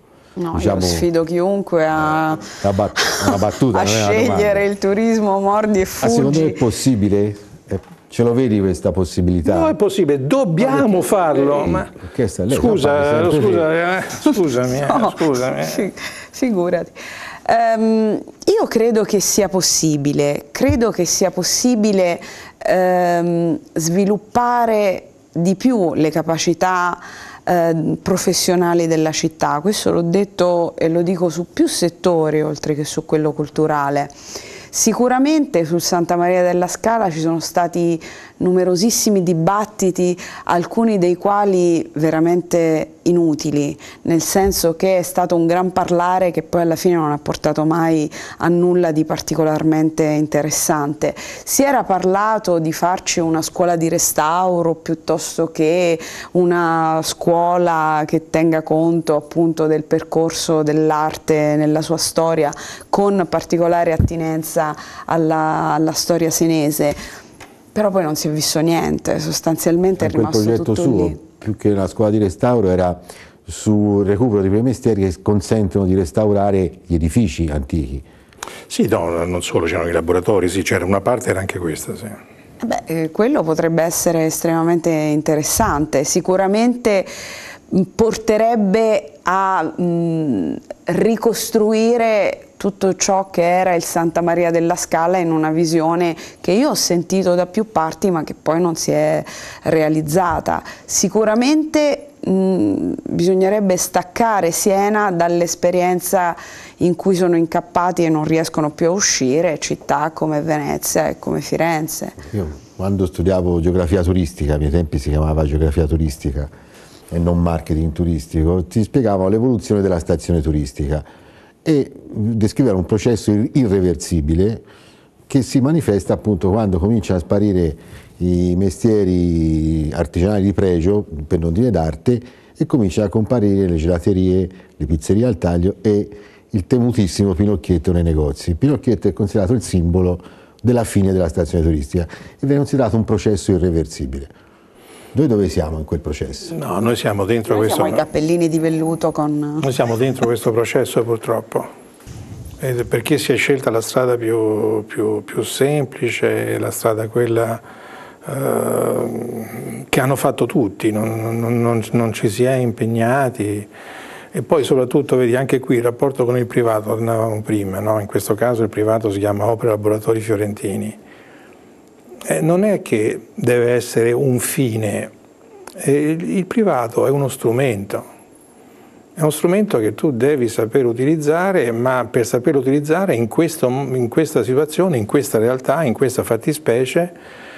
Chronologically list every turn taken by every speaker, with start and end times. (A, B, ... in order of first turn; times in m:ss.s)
0:00.4-0:06.6 A
0:00.5-0:01.1 B
0:02.5-0:04.6 B
0:06.0-0:09.8 B
0:09.4-0:11.9 C
0:11.7-0:13.7 B
0:12.5-0:15.9 C
0:14.8-0:34.1 A
0:34.7-1:07.0 A
1:07.7-1:11.2 A
1:10.0-1:18.0 B
1:18.7-1:22.2 C
1:22.6-1:27.1 A
1:27.7-1:52.2 A
1:52.2-1:56.5 B
1:57.1-2:01.0 B
2:01.6-2:04.6 B
2:05.3-2:24.3 B
2:25.1-2:26.5 B
2:26.5-2:28.0 C
2:27.5-2:29.7 A
2:29.6-2:31.7 C
2:32.6-2:37.6 C
2:38.2-2:43.7 C
2:44.3-2:51.0 C
2:52.2-2:55.1 C
2:55.8-2:58.0 C
2:59.2-3:07.2 C